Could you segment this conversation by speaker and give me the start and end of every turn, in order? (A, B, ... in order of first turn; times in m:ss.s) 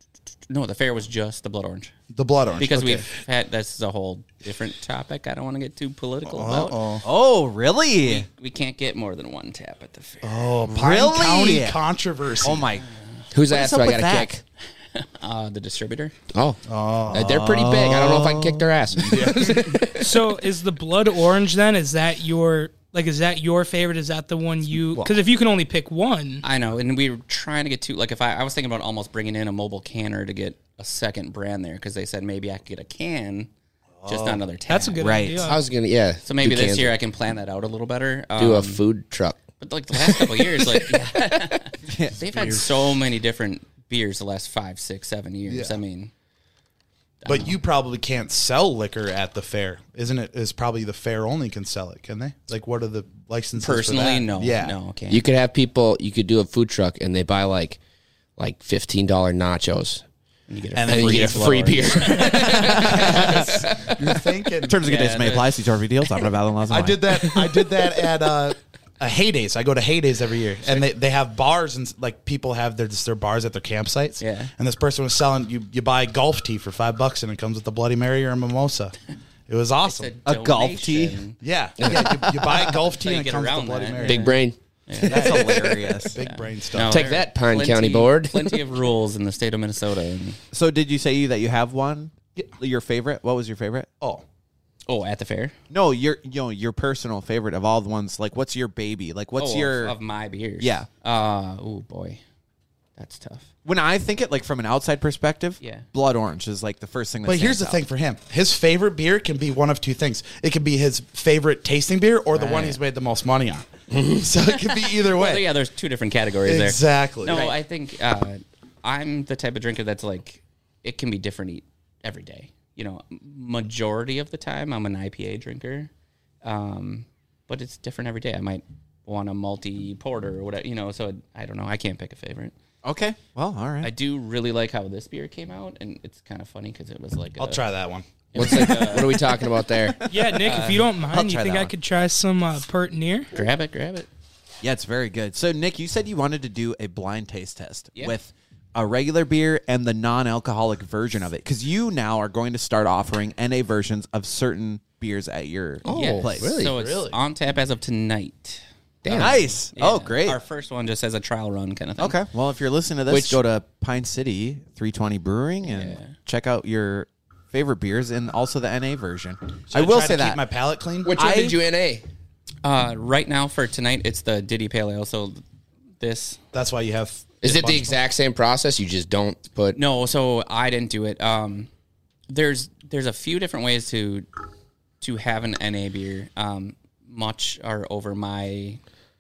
0:00.5-0:01.9 A
0:02.1-0:03.1 B
0:02.6-0:06.8 A
0:06.2-0:07.0 B
0:07.0-0:08.2 C
0:08.0-0:10.4 A
0:10.2-0:12.6 B
0:10.7-0:11.8 C
0:12.4-0:12.9 C
0:13.3-0:14.4 D
0:13.5-0:14.3 C
0:14.9-0:16.1 A
0:16.3-0:16.6 D
0:16.7-0:17.3 B
0:17.1-0:20.2 D
0:17.1-0:18.7 C
0:19.0-0:19.8 B
0:19.9-0:26.4 E
0:26.4-0:33.5 A
0:34.0-0:34.4 B
0:34.0-0:35.0 A
0:34.7-0:35.6 E
0:35.0-0:35.6 C
0:35.4-0:36.9 D
0:36.2-0:38.8 A
0:38.4-0:39.4 D
0:39.6-0:46.1 A
0:40.0-0:41.5 D
0:41.8-0:42.6 C
0:45.5-0:45.8 B
0:47.2-0:47.5 A
0:47.2-0:54.7 B
0:53.6-0:55.2 A
0:55.1-0:57.8 D
0:58.4-1:00.0 D
1:00.5-1:02.9 A
1:00.7-1:04.8 B
1:00.8-1:04.1 D
1:02.5-1:03.5 C
1:04.6-1:07.2 C
1:04.8-1:05.6 A
1:06.7-1:19.0 B
1:07.5-1:07.7 D
1:14.2-1:14.5 A
1:19.5-1:20.1 B
1:19.8-1:21.4 A
1:20.2-1:21.2 C
1:21.4-1:24.4 B
1:21.8-1:22.6 D
1:22.5-1:30.4 A
1:24.0-1:24.6 D
1:25.0-1:26.2 C
1:25.0-1:27.1 B
1:26.8-1:28.6 D
1:30.5-1:33.9 C
1:34.9-1:35.5 A
1:35.7-1:39.9 C
1:39.4-1:42.2 A
1:40.6-1:40.9 C
1:43.0-1:43.5 A
1:43.6-1:47.8 C
1:47.2-1:55.5 B
1:52.3-1:52.8 A
1:53.9-1:54.3 D
1:54.7-2:05.9 A
1:56.4-1:57.5 B
2:06.4-2:12.5 A
2:12.8-2:13.9 C
2:13.8-2:17.6 A
2:17.4-2:18.0 B
2:18.3-2:19.4 A
2:18.3-2:20.0 D
2:20.0-2:23.3 E
2:20.4-2:20.9 A
2:21.1-2:21.7 C
2:23.3-2:24.1 A
2:24.6-2:36.6 C
2:35.8-2:36.7 D
2:35.8-2:42.2 A
2:36.7-2:37.2 B
2:39.0-2:39.4 D
2:39.1-2:40.4 C
2:42.0-2:50.4 C
2:43.1-2:43.4 D
2:45.6-2:46.1 A
2:49.7-2:51.1 B
2:51.0-2:52.0 D
2:51.1-2:51.6 C
2:52.6-2:55.4 A
2:56.0-2:56.4 A
2:56.5-2:57.9 B
2:57.4-2:59.8 D
2:59.7-3:01.7 A
3:02.3-3:04.3 A
3:05.0-3:08.8 A